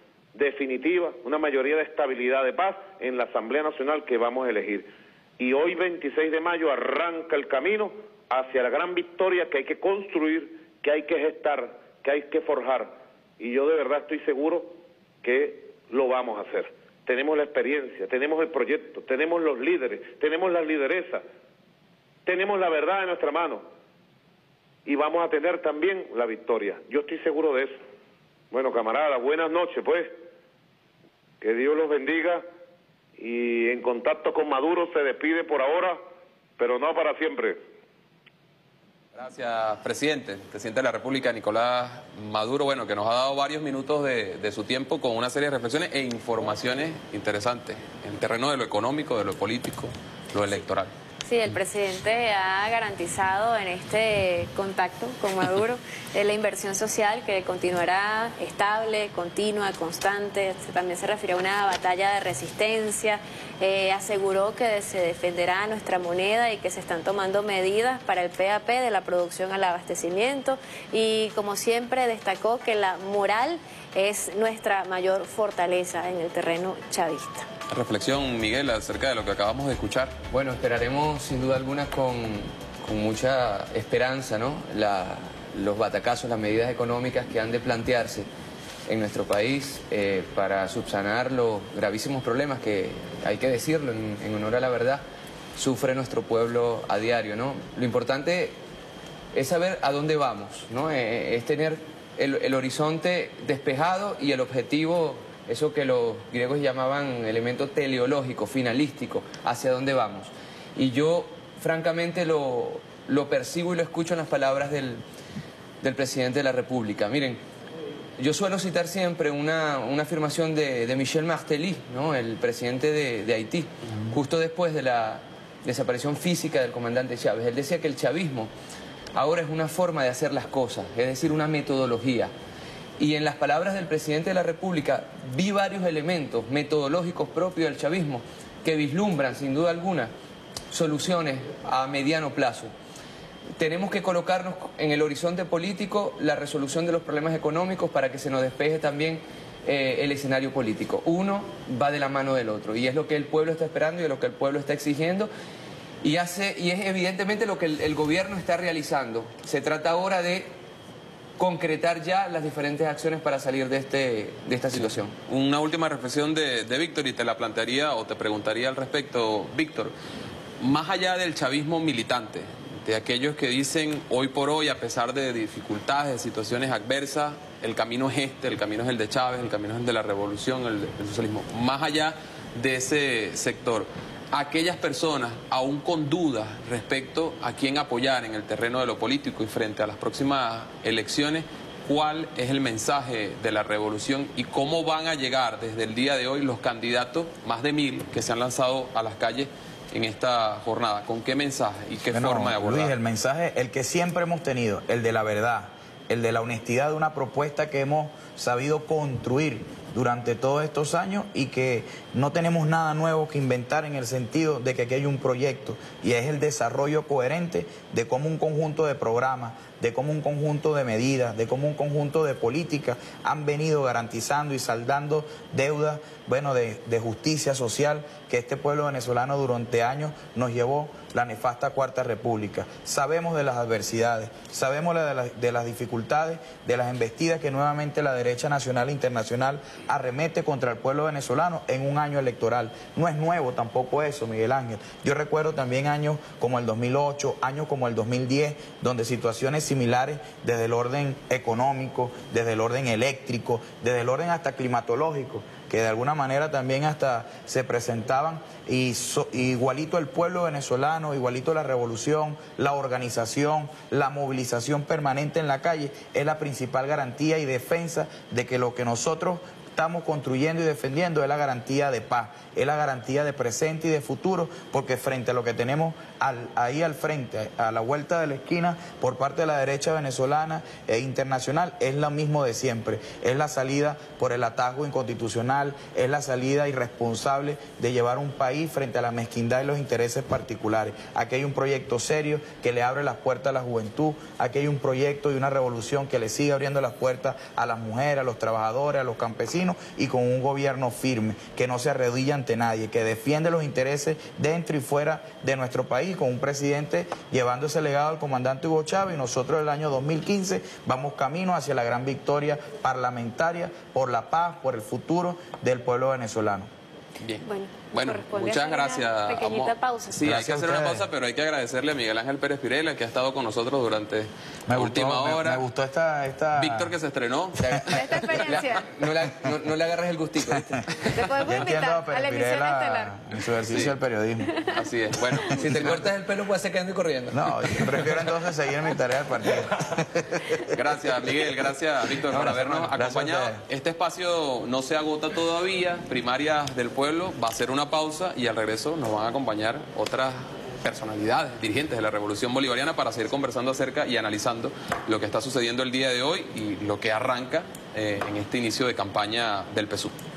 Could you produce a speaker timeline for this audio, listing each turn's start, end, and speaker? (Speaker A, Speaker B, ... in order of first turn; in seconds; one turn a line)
Speaker A: 0.3-21.2
Speaker A: 22.3-23.6
Speaker A: 24.9-27.8
Speaker A: 28.5-30.1
Speaker A: 31.4-32.5
Speaker A: 33.2-36.0
Speaker A: 36.6-37.6
Speaker B: 39.1-50.9
Speaker C: 51.2-77.5
Speaker B: 77.7-80.2
Speaker D: 80.3-88.3
Speaker D: 88.9-95.0
Speaker D: 95.6-98.6
Speaker D: 99.3-115.0
Speaker D: 115.8-117.4
Speaker D: 118.2-128.5
Speaker D: 129.1-132.3
Speaker D: 133.0-140.1
Speaker D: 140.7-142.7
Speaker D: 143.6-155.3
Speaker D: 156.0-160.5
Speaker D: 161.4-165.2
Speaker B: 164.7-169.9
Speaker B: 170.6-202.9
Speaker E: 202.1-316.7
Speaker B: 317.2-325.6
Speaker C: 317.4-320.2
Speaker E: 320.2-321.0
Speaker E: 324.7-326.9
Speaker B: 326.6-328.3
Speaker D: 327.6-331.2
Speaker C: 327.9-328.9
Speaker E: 330.6-330.8
Speaker C: 331.1-333.1
Speaker E: 331.4-334.7
Speaker B: 333.7-333.9
Speaker B: 334.7-336.0
Speaker E: 335.6-335.9
Speaker D: 335.6-338.1
Speaker E: 337.3-340.6
Speaker B: 340.6-360.1
Speaker E: 342.3-343.6